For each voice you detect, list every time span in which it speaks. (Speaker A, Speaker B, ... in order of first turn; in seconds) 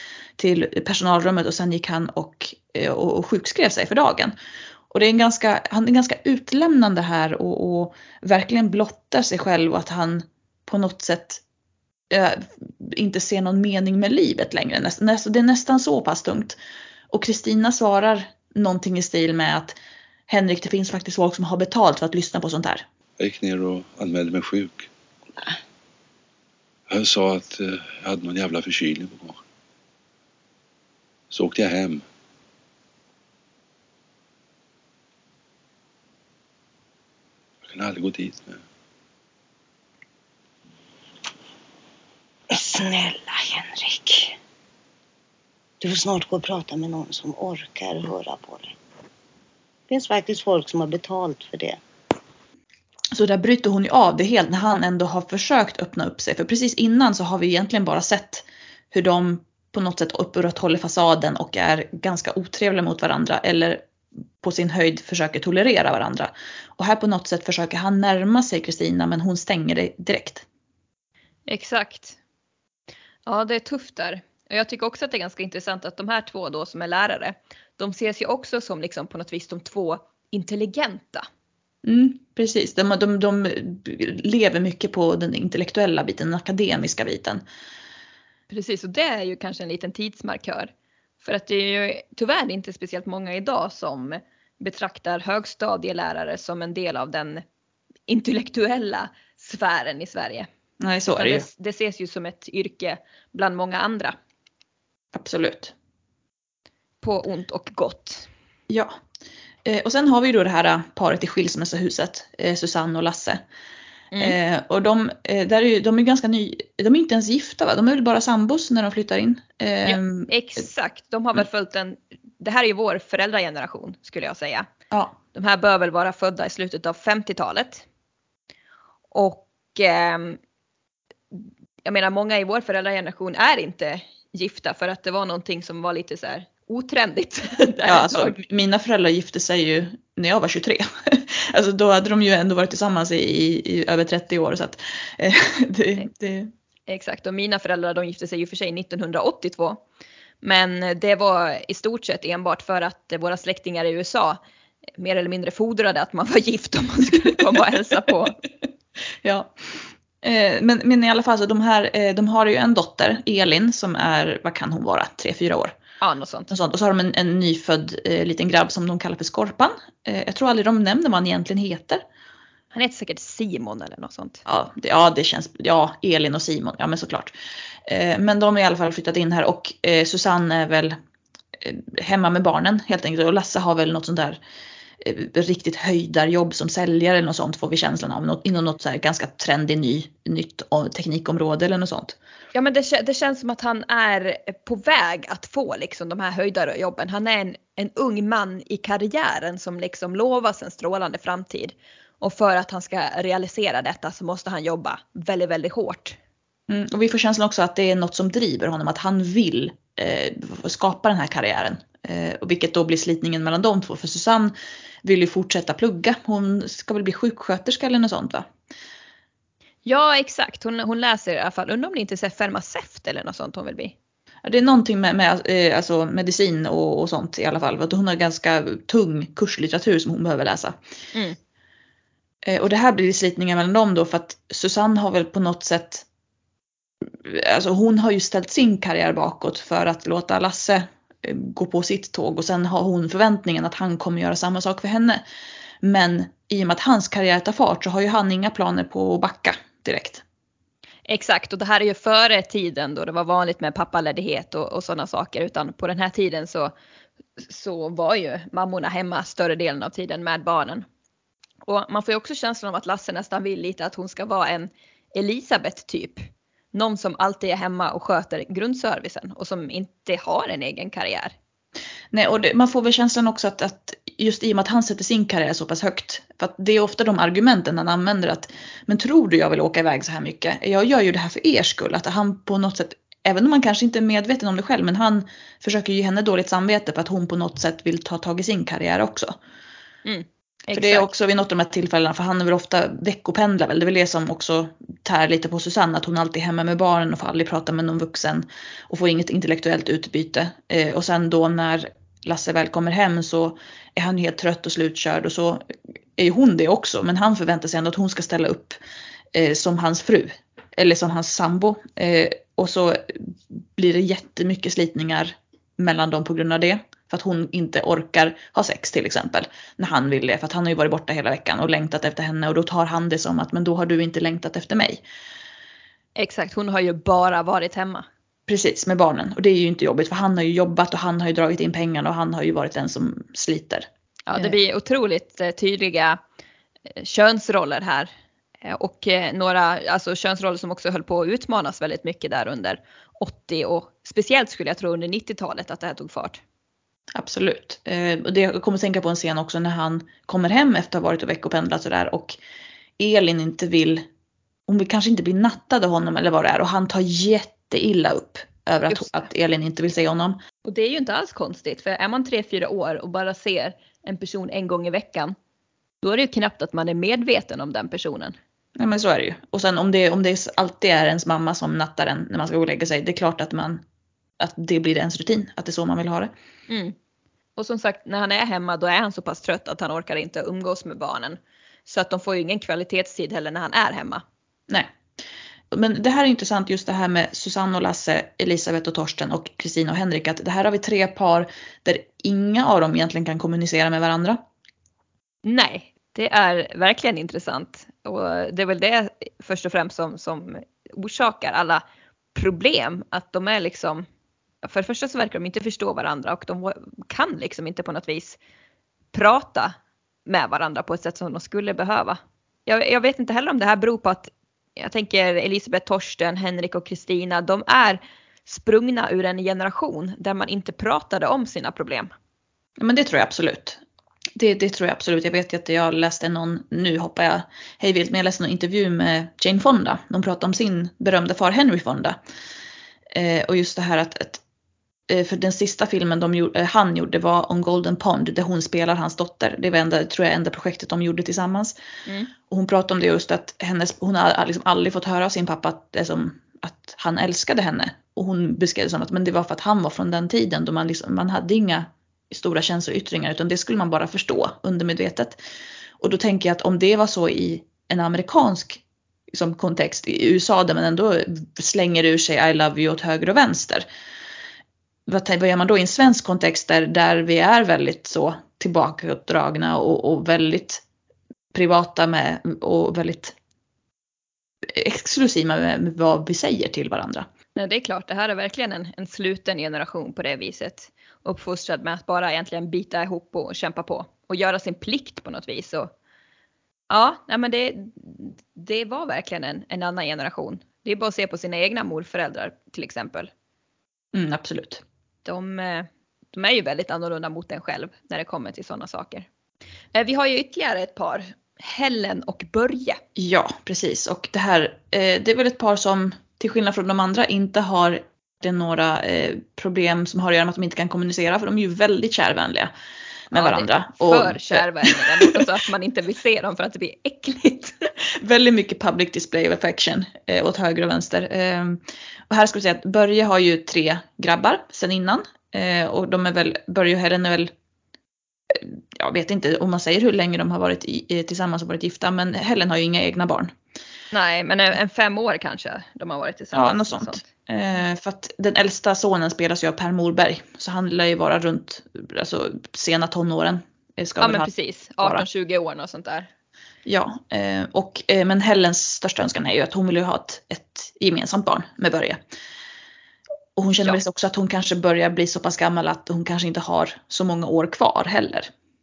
Speaker A: 0.4-4.3, 4.9-11.4, 12.1-16.6, 17.1-19.8, 20.3-22.9, 53.1-63.8, 64.4-70.4, 81.8-87.4, 100.8-101.5, 105.1-105.7, 108.7-108.9, 109.6-113.4, 114.2-120.3, 124.9-125.2, 137.8-146.5, 159.2-165.8, 166.5-172.0, 174.4-177.3, 177.9-180.9, 181.6-184.4, 185.0-192.2, 206.7-218.5, 224.4-230.8, 232.4-236.1, 237.2-245.2, 245.8-250.2, 272.1-289.4, 290.7-305.6, 306.2-308.8, 309.3-325.0, 328.5-334.6, 347.1-352.4, 353.0-354.0, 354.7-360.4, 368.8-373.8, 374.4-376.3, 385.7-394.4, 422.8-423.8, 424.4-432.2, 433.1-434.4, 435.1-441.8, 442.5-455.4, 456.0-458.8, 459.3-463.9, 465.1-470.8, 471.5-473.3, 474.6-477.3, 494.1-494.8, 503.1-512.7, 513.3-515.4, 518.1-527.5, 528.5-533.5, 536.5-545.2, 546.9-552.2, 553.5-558.5
Speaker B: 23.2-24.9, 26.9-29.4, 31.3-32.0, 37.6-38.6
Speaker C: 42.5-44.4, 45.8-48.7, 49.9-51.8
Speaker D: 71.5-72.2, 73.2-81.3, 88.5-90.7, 91.2-97.4, 98.1-100.5, 101.1-104.1, 107.0-108.3, 119.8-124.7, 125.3-127.8, 129.1-130.4, 131.3-138.3, 146.9-149.8, 150.4-154.4, 155.0-158.4, 166.0-166.5, 172.7-174.4, 192.5-206.2, 219.8-223.9, 251.1-256.7, 257.4-260.9, 261.6-271.3, 290.0-291.1, 326.1-328.1, 334.3-336.2, 336.9-338.1, 338.6-346.4, 360.6-365.3, 366.0-368.4, 376.7-376.9, 377.6-384.2, 395.4-401.8, 402.3-404.0, 404.6-408.4, 409.1-409.7, 410.2-422.1, 442.1-442.3, 477.5-485.9, 486.9-493.3, 495.2-499.3, 499.9-503.0, 513.3-517.9, 534.1-537.3, 544.2-546.3